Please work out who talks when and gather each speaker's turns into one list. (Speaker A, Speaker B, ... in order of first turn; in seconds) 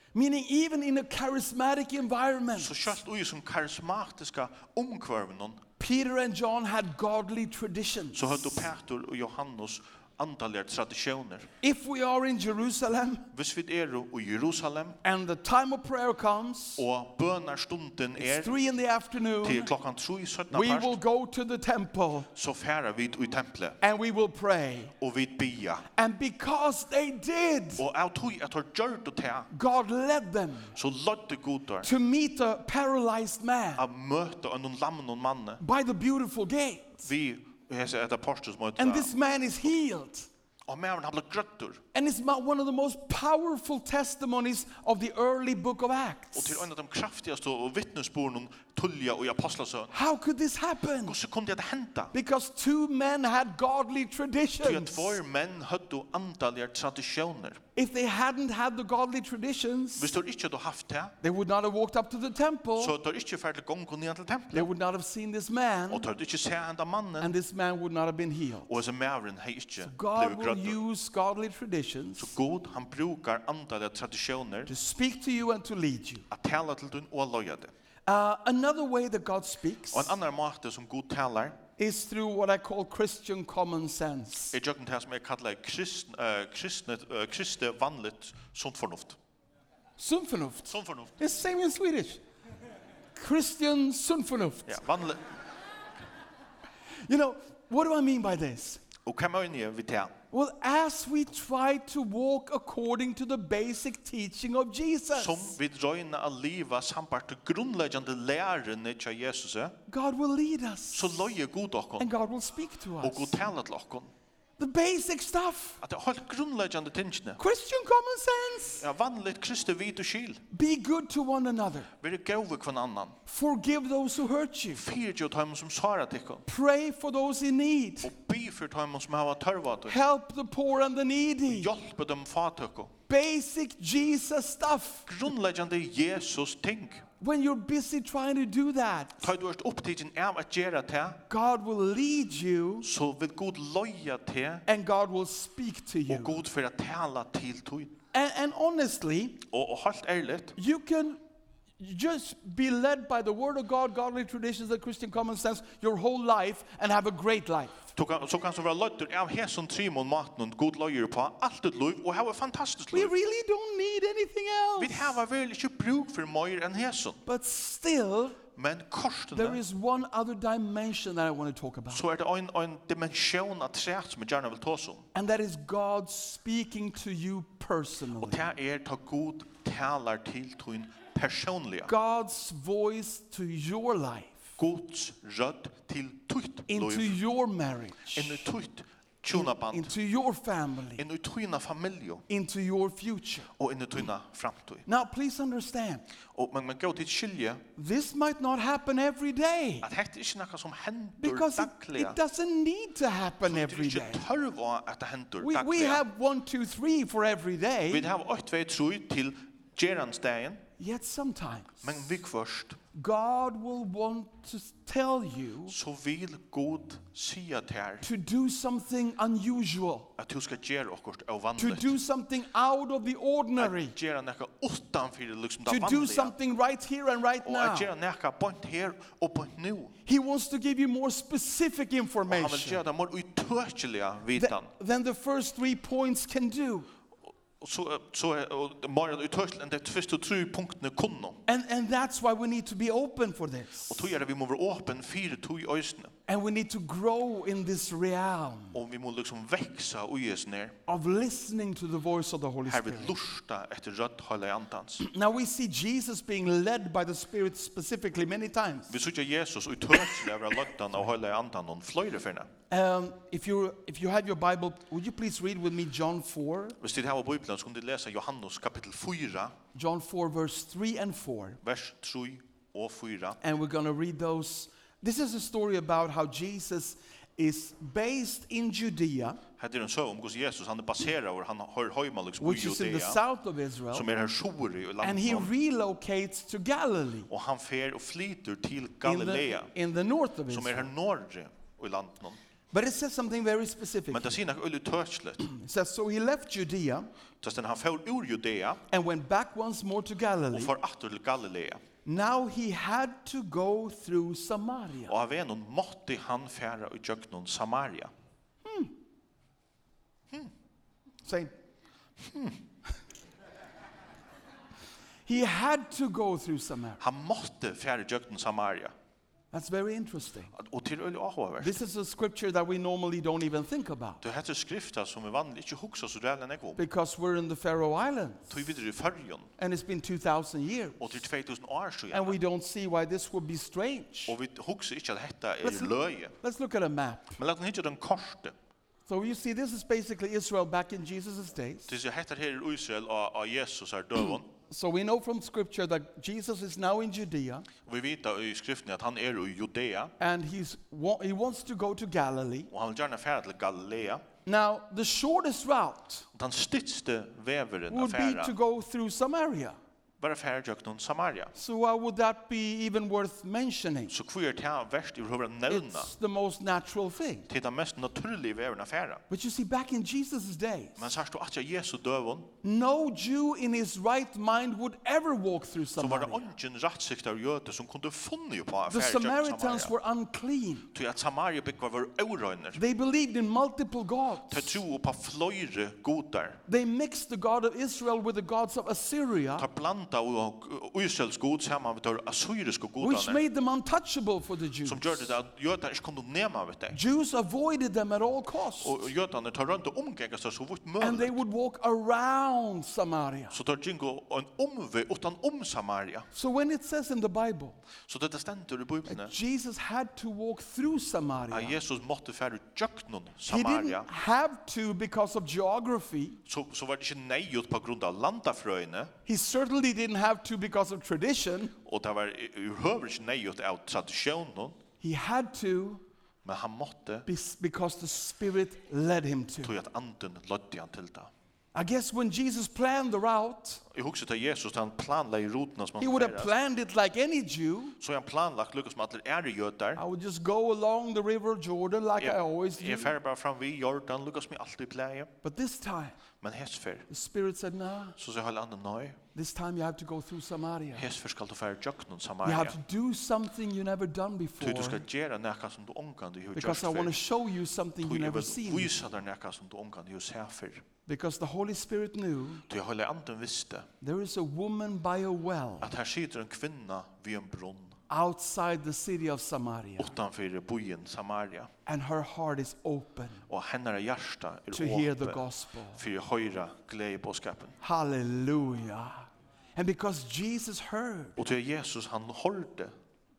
Speaker A: 0.1-2.9, 5.8-8.7, 11.6-13.3, 15.0-16.8, 18.2-19.7, 20.5-22.3, 23.8-24.9, 25.9-27.8, 29.5-30.8, 31.8-33.8, 35.6-37.1, 38.8-40.3, 41.9-46.6, 49.9-51.1, 52.1-55.2, 57.8-60.1, 61.2-62.9, 64.5-66.1, 67.2-68.7, 69.8-72.3, 74.7-76.3, 78.0-80.1, 81.8-84.5, 90.0-92.2, 93.2-94.8, 97.0-98.8, 100.3-105.5, 109.9-111.2, 112.0-113.3, 114.6-115.8, 117.4-118.8, 120.5-121.9, 123.2-124.8, 126.5-128.1, 129.8-131.7, 133.1-135.1, 137.2-139.3, 141.3-142.9, 144.7-146.4, 148.1-149.4, 150.6-151.2, 151.8-157.8, 162.9-165.2, 167.2-168.4, 169.3-172.0, 175.1-178.4, 181.8-184.6, 186.7-188.4, 189.3-191.0, 192.3-193.5, 194.9-196.0, 197.8-199.9, 201.2-204.2, 205.4-208.1, 210.8-212.0, 212.9-215.8, 218.0-220.1, 221.6-223.9, 225.7-227.9, 230.0-232.8, 234.3-236.9, 241.5-244.1, 246.3-248.8, 250.9-253.2, 255.0-258.9, 262.7-266.8, 269.7-271.6, 273.4-279.4, 282.4-284.1, 285.0-287.3, 289.0-290.9, 292.7-294.3, 295.4-297.1, 298.9-300.7, 302.0-305.1, 308.6-308.9, 311.2-311.5, 315.2-317.0, 319.5-320.5, 321.6-324.2, 326.8-328.6, 329.6-331.2, 332.1-334.4, 335.6-337.4, 339.1-341.9, 344.7-347.7, 350.2-352.7, 354.4-356.3, 357.9-359.8, 361.5-364.1, 365.7-367.5, 369.3-371.1, 372.6-376.4, 378.9-380.9, 382.7-384.8, 386.7-389.7, 393.0-395.3, 396.9-399.0, 401.0-403.6, 406.3-407.8, 409.1-411.8, 413.4-416.4, 419.2-421.7, 425.0-426.0, 427.3-429.7, 431.7-433.8, 436.0-438.0, 439.9-443.1, 445.4-446.2, 447.1-448.2, 449.3-451.0, 452.4-455.0, 456.6-458.9, 461.1-462.6, 464.0-465.9, 468.1-470.1, 471.9-473.4, 474.7-476.0, 477.8-481.4
Speaker B: 2.5-5.6, 8.1-11.5, 13.3-15.0, 16.8-18.6, 19.4-21.0, 22.3-23.8, 25.0-25.9, 27.8-29.5, 30.7-31.9, 33.8-35.6, 37.0-39.1, 40.7-41.8, 46.3-49.9, 51.0-52.1, 54.6-57.6, 60.0-61.1, 62.8-64.7, 65.9-67.3, 68.7-70.8, 72.2-74.7, 76.3-77.7, 79.9-81.6, 84.5-89.2, 90.7-91.2, 94.7-95.3, 99.0-100.1, 105.1-109.8, 110.9-112.1, 113.0-114.1, 115.8-117.4, 118.8-120.4, 122.0-123.2, 124.7-126.4, 128.0-130.0, 131.5-132.9, 135.1-137.1, 139.2-141.2, 142.8-144.6, 146.1-147.9, 149.5-150.6, 157.9-163.1, 164.8-167.2, 168.5-169.6, 171.9-175.1, 178.2-181.9, 184.6-187.2, 188.1-189.9, 191.0-192.2, 193.6-194.8, 196.3-197.6, 199.8-202.2, 203.4-206.0, 207.9-210.6, 211.8-212.8, 215.7-218.1, 220.2-222.0, 223.6-226.3, 227.4-229.9, 232.3-234.7, 237.6-241.4, 243.9-246.1, 248.7-250.8, 252.7-255.1, 258.9-262.5, 266.8-269.6, 271.6-273.4, 279.6-283.2, 283.9-285.5, 287.3-289.7, 290.5-292.4, 294.1-295.5, 297.4-298.8, 300.5-301.8, 305.1-308.1, 312.2-312.6, 317.0-318.9, 320.5-321.8, 324.2-326.8, 328.5-329.5, 331.0-332.4, 334.3-336.4, 337.4-338.6, 341.9-344.5, 347.8-350.1, 352.7-354.2, 356.3-358.5, 360.2-361.5, 364.1-366.1, 367.5-369.2, 371.0-372.5, 376.0-379.9, 380.9-382.8, 384.5-386.6, 389.6-393.4, 394.8-397.0, 398.8-401.4, 403.5-406.3, 408.1-409.4, 411.5-414.1, 416.4-419.1, 421.8-424.8, 426.4-427.3, 429.6-431.3, 433.9-436.5, 438.0-440.0, 442.2-445.3, 446.4-447.1, 448.2-449.2, 450.9-452.8, 454.6-457.2, 458.0-460.8, 462.7-463.9, 465.8-468.0, 470.0-471.7, 473.5-477.8, 481.4-482.9